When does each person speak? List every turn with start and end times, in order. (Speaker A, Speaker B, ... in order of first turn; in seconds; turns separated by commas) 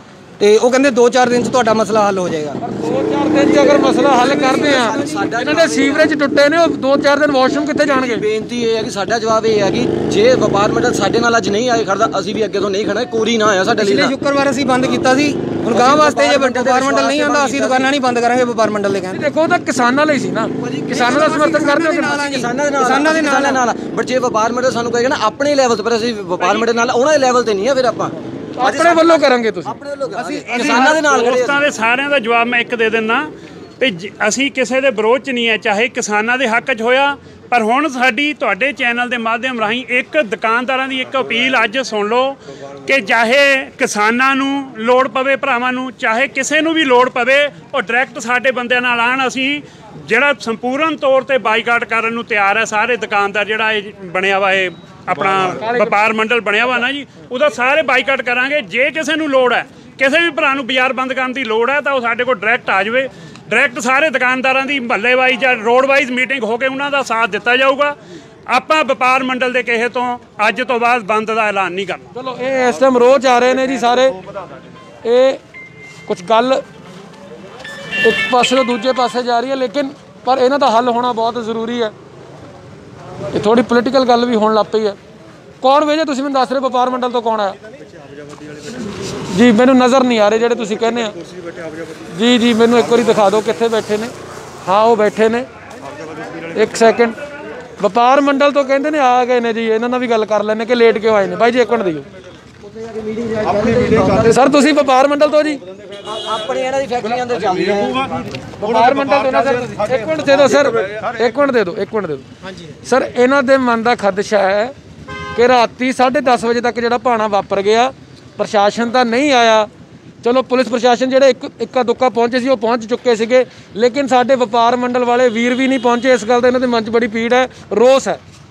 Speaker A: 0.4-2.6, Speaker B: 2.6-8.2, Speaker A: 3.3-5.3, Speaker C: 3.6-6.1, Speaker C: 7.8-14.2, Speaker A: 13.8-19.2, Speaker C: 15.7-17.9, Speaker B: 19.1-22.2, Speaker C: 20.6-20.9, Speaker A: 20.8-23.6, Speaker C: 22.1-31.6, Speaker B: 28.6-29.8, Speaker A: 30.1-31.4, Speaker D: 31.3-33.3, Speaker D: 33.8-68.0, Speaker B: 55.5-56.0, Speaker D: 68.5-72.1, Speaker B: 72.2-74.2, Speaker B: 75.0-75.4, Speaker B: 76.1-76.6, Speaker B: 78.0-81.9, Speaker B: 83.3-85.0, Speaker B: 85.6-87.6, Speaker B: 89.3-91.2, Speaker B: 92.1-94.1, Speaker B: 94.7-95.5, Speaker B: 96.5-97.2, Speaker B: 97.8-102.1, Speaker A: 103.0-104.4, Speaker B: 104.3-105.6, Speaker C: 106.1-108.2, Speaker B: 108.6-112.2, Speaker B: 112.8-114.7, Speaker B: 115.4-119.7, Speaker B: 120.2-128.2